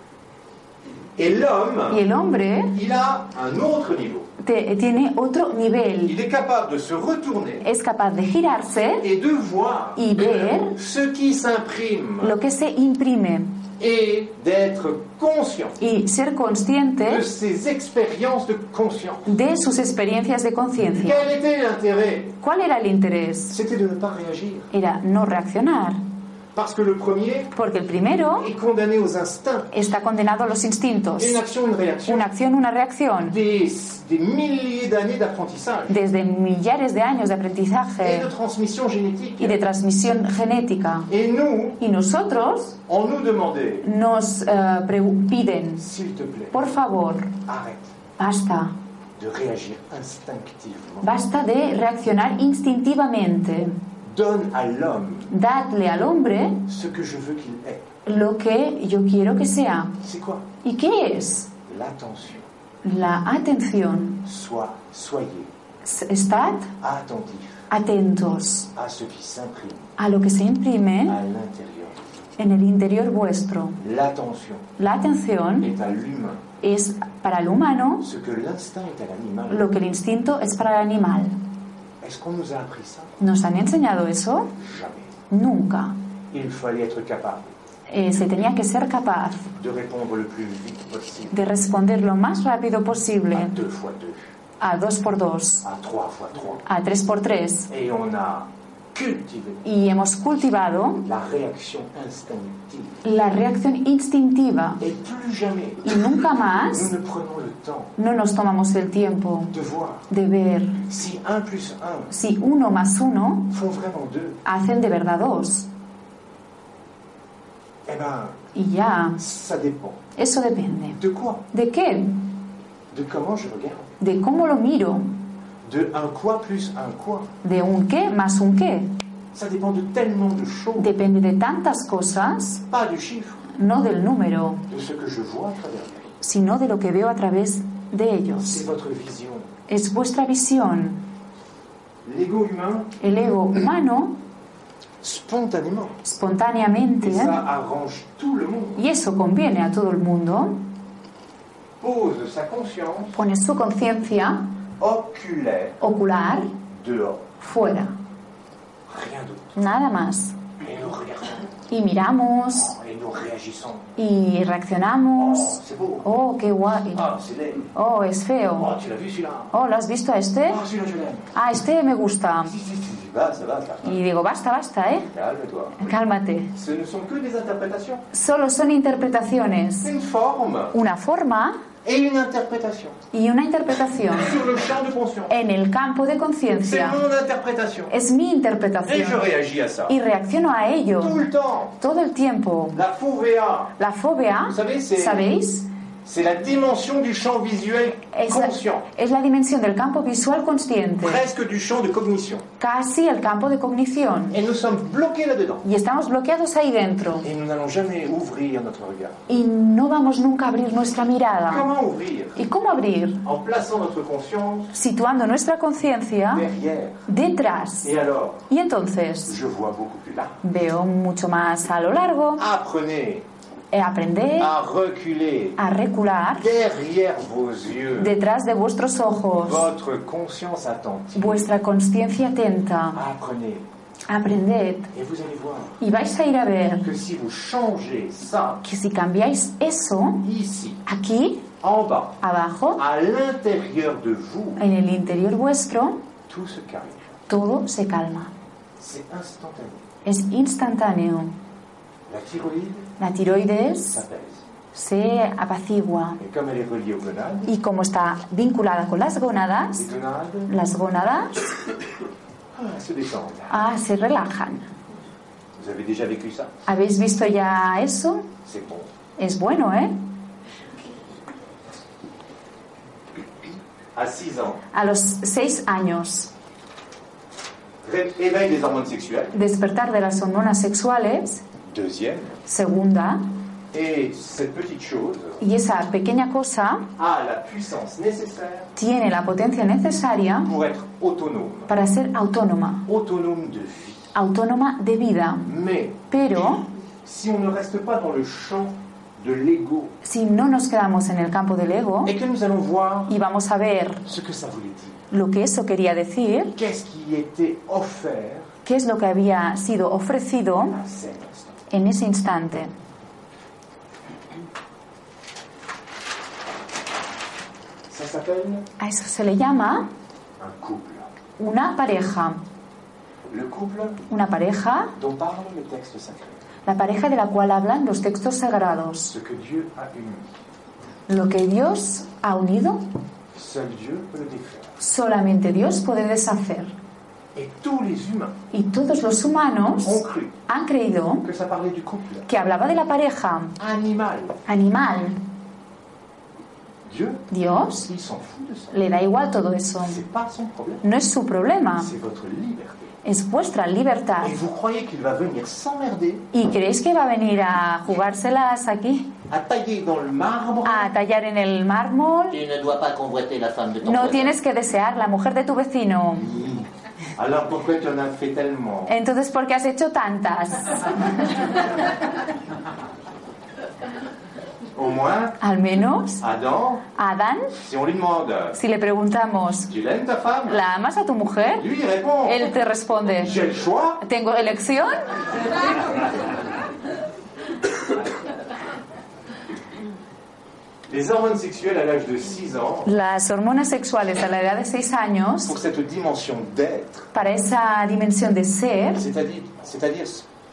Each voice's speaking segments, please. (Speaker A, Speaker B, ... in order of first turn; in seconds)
Speaker A: 1.1-2.1, 2.7-4.3, 6.0-7.7, 9.0-12.4, 13.8-15.8, 17.0-19.3, 20.9-22.4, 23.5-24.7, 26.5-27.5, 28.3-29.7, 31.2-32.3, 33.2-36.0, 38.0-39.6, 41.1-41.8, 42.9-43.9, 45.8-46.6, 47.5-47.9, 49.2-51.1, 54.0-55.3, 56.7-57.9, 60.0-60.5, 61.6-62.5, 64.2-65.5, 66.8-67.7, 68.7-69.9, 71.0-72.0, 73.8-74.7, 75.6-76.4, 78.0-79.7, 82.0-83.2, 84.6-85.1, 86.3-87.5, 89.5-91.3, 93.3-94.3, 95.6-96.6, 97.7-99.6, 101.0-103.0, 104.8-107.9, 109.5-110.1, 110.8-112.1, 113.5-114.4, 117.8-118.3, 119.2-120.0, 120.9-121.4, 122.9-123.9, 125.6-127.3, 129.3-130.9, 132.7-133.4, 134.7-136.1, 138.4-139.5, 142.0-142.9, 145.0-146.0, 147.0-148.8, 151.8-153.2, 154.8-155.8, 156.7-157.2, 158.9-159.8, 160.6-161.5, 162.5-163.9, 165.2-166.1, 166.9-167.7, 168.5-169.5, 170.4-171.3, 172.4-174.0, 175.1-175.9, 176.5-178.0, 179.8-180.8, 181.8-183.0, 184.1-185.3, 186.6-187.9, 188.8-189.9, 190.9-191.8, 192.7-193.7, 194.4-195.3, 196.0-198.9, 201.0-202.4, 204.3-205.6, 207.2-209.2, 211.4-212.4, 213.2-214.8, 216.3-217.0, 217.8-218.4, 219.2-220.4, 222.4-223.2, 224.4-225.6, 226.4-228.1, 229.3-231.5, 232.9-233.7, 234.9-235.8, 236.8-238.6, 240.2-240.8, 241.6-242.2, 242.8-244.6, 246.3-247.1, 248.8-249.9, 252.1-252.9, 253.9-254.4, 256.2-257.5, 259.7-260.5, 262.5-263.6, 265.6-266.5, 268.4-268.9, 273.9-274.6, 277.8-279.3, 281.6-282.4, 283.7-285.4, 287.0-288.7, 290.4-291.7, 292.9-294.1, 295.4-299.9, 302.0-303.1, 304.0-305.0, 306.5-308.5, 310.7-311.5, 317.9-318.7, 320.4-321.1, 323.3-324.0, 324.9-326.4, 329.1-330.3, 333.3-334.8, 337.3-338.4, 339.8-340.4, 341.2-342.3, 343.6-344.4, 346.9-348.8, 349.8-350.8, 351.8-352.9, 354.2-356.3, 359.3-360.9, 366.2-368.9, 374.7-375.4, 376.2-376.9, 377.6-378.6, 379.7-380.6, 381.5-382.5, 383.2-384.0, 390.9-392.9, 395.4-397.1, 398.9-400.2
Speaker B: 1.9-2.8, 4.4-6.2, 7.6-9.1, 9.9-10.8, 12.2-13.6, 15.8-17.2, 19.2-21.3, 22.4-23.6, 24.7-26.0, 27.5-28.5, 29.7-31.4, 32.0-33.4, 35.9-38.3, 39.4-41.1, 41.8-42.8, 43.8-45.8, 46.5-47.4, 48.2-48.7, 51.0-53.8, 55.3-56.7, 58.0-60.0, 60.6-61.5, 62.8-64.2, 65.8-66.7, 67.7-68.7, 70.0-71.2, 72.4-73.8, 74.8-75.7, 76.6-78.1, 79.5-81.4, 83.2-84.5, 85.3-86.0, 87.9-89.5, 91.3-93.6, 94.6-95.7, 96.6-97.7, 99.6-101.1, 103.0-104.8, 105.8-106.9, 108.0-109.5, 110.1-110.8, 112.1-113.5, 114.4-115.7, 118.5-119.2, 120.2-121.0, 121.5-122.2, 124.0-125.1, 127.4-128.9, 130.8-132.6, 133.5-134.6, 136.2-138.6, 139.7-141.0, 143.0-144.2, 146.0-147.4, 148.8-150.6, 153.1-154.5, 155.8-156.5, 157.4-157.9, 159.6-160.4, 161.7-162.7, 164.0-167.1, 167.7-168.7, 169.5-170.6, 171.3-172.5, 173.8-175.1, 175.8-176.5, 178.1-179.9, 180.7-181.6, 183.1-184.4, 185.3-187.0, 187.9-189.3, 189.9-191.2, 191.8-192.8, 193.8-195.7, 198.1-201.2, 202.6-204.4, 205.6-207.3, 209.3-211.7, 212.3-213.2, 214.7-216.5, 217.1-217.9, 218.5-219.3, 220.4-222.4, 223.7-224.5, 225.6-226.5, 228.0-229.7, 231.1-233.0, 234.1-234.9, 235.8-236.9, 238.6-240.3, 240.8-241.5, 242.2-242.8, 244.6-246.0, 247.3-248.3, 250.0-251.3, 253.0-254.0, 254.7-256.2, 257.4-259.9, 260.5-261.4, 263.5-264.6, 266.6-268.3, 269.2-270.0, 274.7-276.3, 279.3-281.4, 282.4-283.3, 285.4-286.9, 288.8-290.5, 291.7-292.9, 294.1-295.5, 296.1-296.7, 300.0-302.1, 303.1-304.0, 305.1-306.5, 308.6-310.8, 311.7-312.7, 318.8-319.9, 321.4-322.4, 324.1-324.9, 326.6-329.1, 331.1-332.9, 334.8-336.7, 338.5-341.3, 342.3-343.6, 344.4-345.2, 347.3-347.9, 348.7-350.0, 350.8-351.9, 353.0-354.4, 356.3-359.1, 360.6-362.4, 363.8-366.3, 368.9-371.4, 375.4-376.2, 376.9-377.6, 378.5-379.7, 380.5-381.7, 382.2-383.4, 384.0-385.2, 392.8-395.6, 397.1-399.0
Speaker C: 362.3-364.3